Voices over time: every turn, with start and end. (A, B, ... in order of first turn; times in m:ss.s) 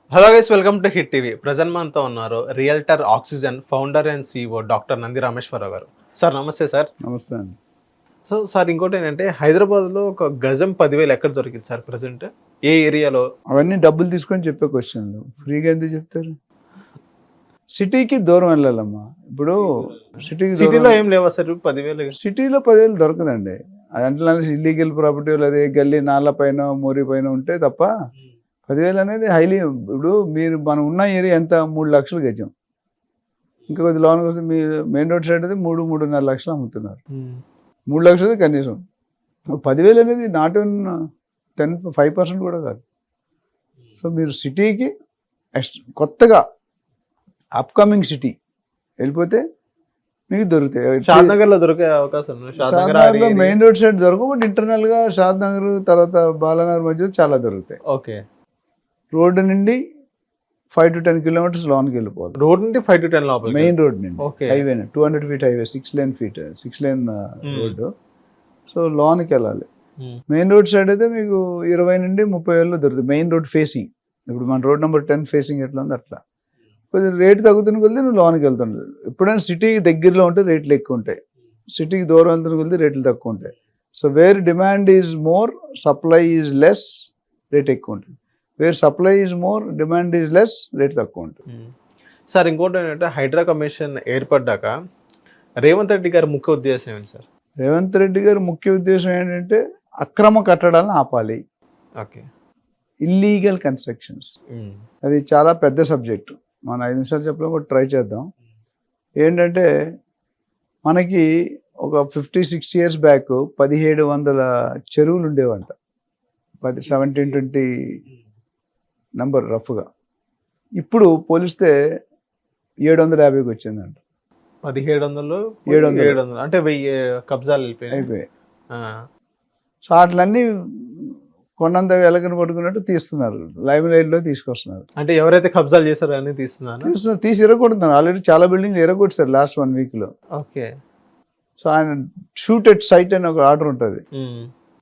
0:00.1-0:06.9 A
0:07.0-0:07.6 B
0:08.3-0:13.3 A
0:13.5-0:16.4 B
0:17.8-0:21.0 B
0:20.5-0:22.2 A
0:22.2-0:27.9 B
0:28.7-0:32.5 B
0:33.7-0:37.0 B
0:37.1-0:37.4 A
0:37.9-0:38.8 B
0:39.6-0:40.9 B
0:41.6-0:42.8 B
0:44.0-0:44.9 B
0:45.6-0:46.4 B
0:47.6-0:48.3 B
0:49.0-0:49.4 B
0:50.3-0:51.4 B
0:51.1-0:53.6 A
0:52.6-0:57.8 B
0:57.9-0:58.2 A
0:59.1-0:59.8 B
1:00.7-1:02.4 B
1:02.4-1:04.7 A
1:03.4-1:07.9 B
1:08.7-1:09.7 B
1:10.3-1:16.2 B
1:16.9-1:21.2 B
1:21.7-1:31.4 B
1:32.3-1:34.7 A
1:35.6-1:37.2 A
1:37.6-1:41.4 B
1:43.1-1:44.3 B
1:45.0-1:48.3 B
1:49.2-1:49.6 B
1:50.9-1:51.2 B
1:51.8-1:55.7 B
1:56.6-1:57.7 B
1:59.2-1:59.8 B
2:00.8-2:01.7 B
2:02.9-2:04.0 B
2:04.6-2:08.1 A
2:05.7-2:06.2 B
2:07.9-2:08.3 B
2:09.9-2:14.9 B
2:15.0-2:16.9 A
2:16.8-2:20.1 B
2:20.4-2:20.7 A
2:21.6-2:24.0 B
2:24.2-2:24.5 A